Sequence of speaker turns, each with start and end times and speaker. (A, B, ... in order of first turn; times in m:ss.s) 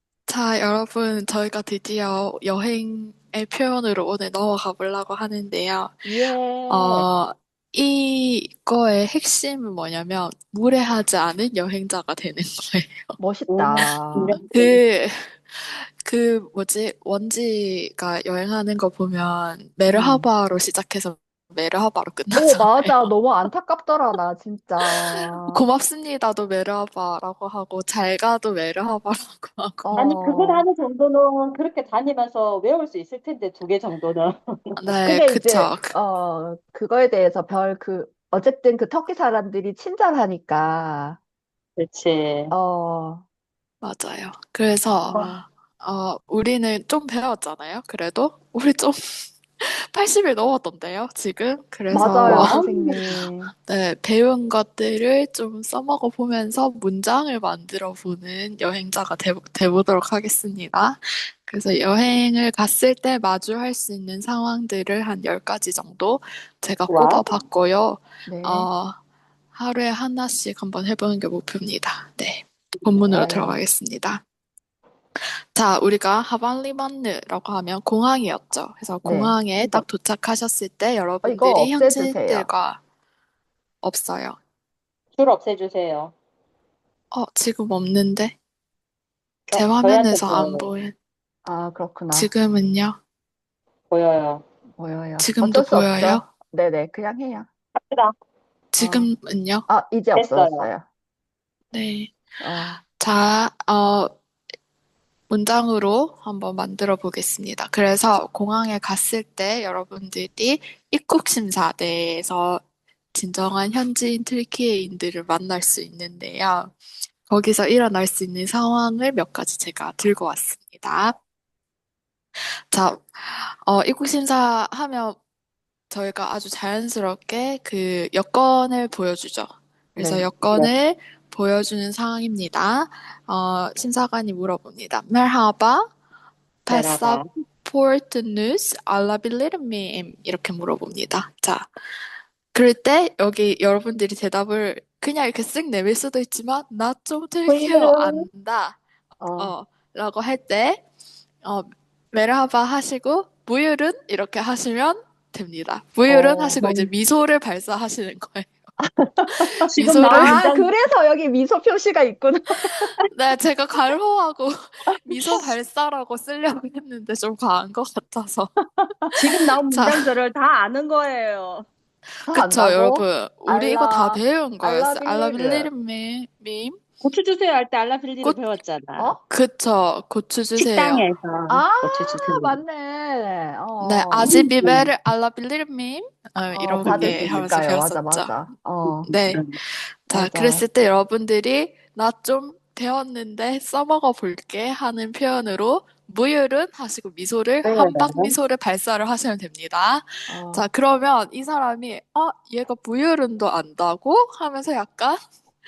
0:00.3-0:06.2 A
0:06.0-0:07.0 B
0:06.7-0:13.2 A
0:13.2-0:14.3 B
0:13.5-0:14.8 C
0:13.8-0:23.1 A
0:19.9-0:20.3 B
0:22.3-0:25.6 B
0:24.8-0:30.0 A
0:29.8-0:30.6 B
0:30.0-0:34.8 C
0:34.8-0:35.9 A
0:35.0-0:41.2 B
0:41.8-0:42.5 C
0:42.5-0:43.2 B
0:43.8-0:49.0 A
0:45.1-0:45.4 C
0:45.1-0:45.5 B
0:49.6-1:09.0 A
0:51.9-0:53.5 B
0:52.2-0:53.2 C
1:06.9-1:07.3 C
1:08.2-1:08.7 B
1:09.5-1:14.2 A
1:12.8-1:13.3 C
1:13.1-1:13.6 B
1:15.5-1:22.8 A
1:19.0-1:19.8 B
1:21.2-1:22.5 B
1:23.8-1:24.4 A
1:25.1-1:26.1 C
1:27.1-1:28.4 A
1:29.5-1:30.7 C
1:29.5-1:30.9 A
1:31.4-1:32.3 B
1:32.1-1:33.0 A
1:33.9-1:34.4 C
1:34.8-1:37.5 B
1:35.2-1:36.3 A
1:37.8-1:38.1 C
1:38.7-1:39.7 A
1:38.8-1:39.1 B
1:39.7-1:40.8 B
1:40.1-1:40.7 C
1:41.7-1:42.1 A
1:42.4-1:42.8 B
1:43.0-1:44.1 A
1:45.3-1:52.6 A
1:53.1-1:56.7 A
1:57.3-2:01.2 A
2:02.7-2:05.2 A
2:05.9-2:15.9 A
2:10.0-2:10.3 B
2:16.6-2:21.7 A
2:16.6-2:17.3 C
2:22.5-2:28.8 A
2:27.5-2:28.2 C
2:29.2-2:29.5 B
2:29.4-2:30.8 A
2:31.4-2:38.5 A
2:36.1-2:36.9 B
2:38.8-2:42.9 B
2:39.7-2:40.5 A
2:39.7-2:40.8 C
2:43.1-2:44.5 A
2:44.9-2:45.5 B
2:45.0-2:48.5 A
2:48.8-2:49.3 B
2:49.1-2:51.6 C
2:49.7-2:50.1 A
2:52.3-2:55.7 B
2:52.3-2:56.8 A
2:57.0-2:59.1 C
2:58.2-2:58.5 A
2:59.3-3:01.0 A
3:00.6-3:02.6 C
3:01.5-3:04.3 B
3:03.8-3:08.3 A
3:04.2-3:04.9 C
3:06.5-3:09.4 B
3:06.8-3:07.4 C
3:08.8-3:09.6 C
3:09.0-3:25.2 A
3:10.1-3:10.6 B
3:17.6-3:18.3 C
3:20.3-3:20.7 B